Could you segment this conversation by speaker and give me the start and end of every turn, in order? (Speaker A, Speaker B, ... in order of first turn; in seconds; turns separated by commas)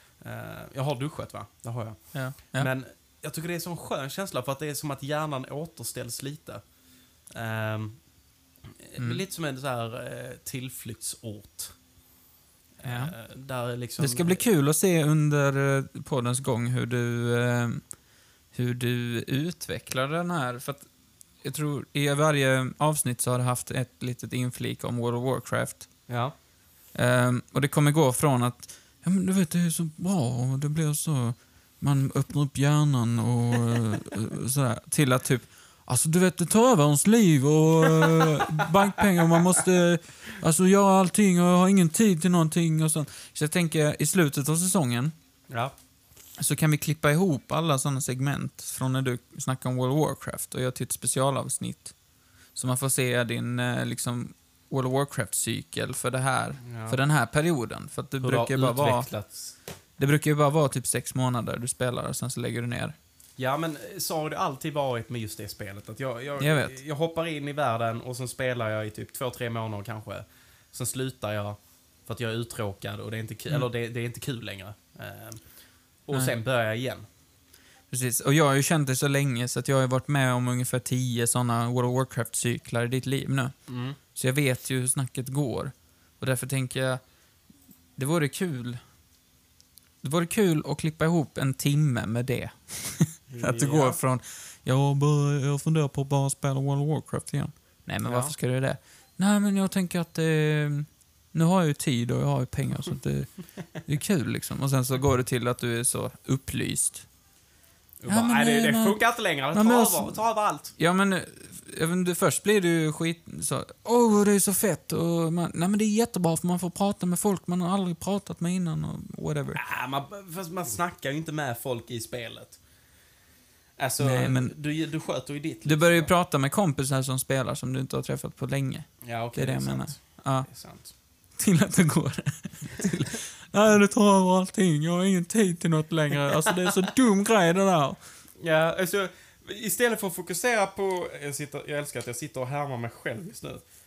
Speaker A: 0.2-6.6, Speaker B: 2.1-2.7, Speaker A: 7.3-8.0, Speaker A: 8.8-11.8, Speaker A: 12.8-14.4, Speaker B: 12.8-13.1, Speaker B: 14.0-17.9, Speaker B: 18.5-20.9, Speaker B: 21.4-25.9, Speaker A: 26.1-26.3, Speaker B: 26.9-45.1, Speaker A: 37.9-39.6, Speaker B: 46.4-52.0, Speaker B: 52.5-59.1, Speaker A: 56.6-57.0, Speaker A: 58.2-59.5, Speaker B: 60.0-63.0, Speaker A: 63.4-75.4, Speaker B: 66.4-66.8, Speaker A: 76.1-77.0, Speaker B: 77.9-83.5, Speaker A: 83.7-84.0, Speaker B: 84.1-87.0, Speaker B: 88.0-88.8, Speaker B: 90.0-107.1, Speaker A: 93.3-94.0, Speaker A: 98.0-98.3, Speaker A: 108.0-110.7, Speaker B: 108.1-109.0, Speaker B: 109.5-110.2, Speaker B: 110.8-119.6, Speaker A: 119.5-122.6, Speaker A: 123.8-126.1, Speaker B: 124.0-124.5, Speaker B: 125.7-130.5, Speaker A: 129.0-130.9, Speaker B: 131.4-138.0, Speaker A: 138.4-143.6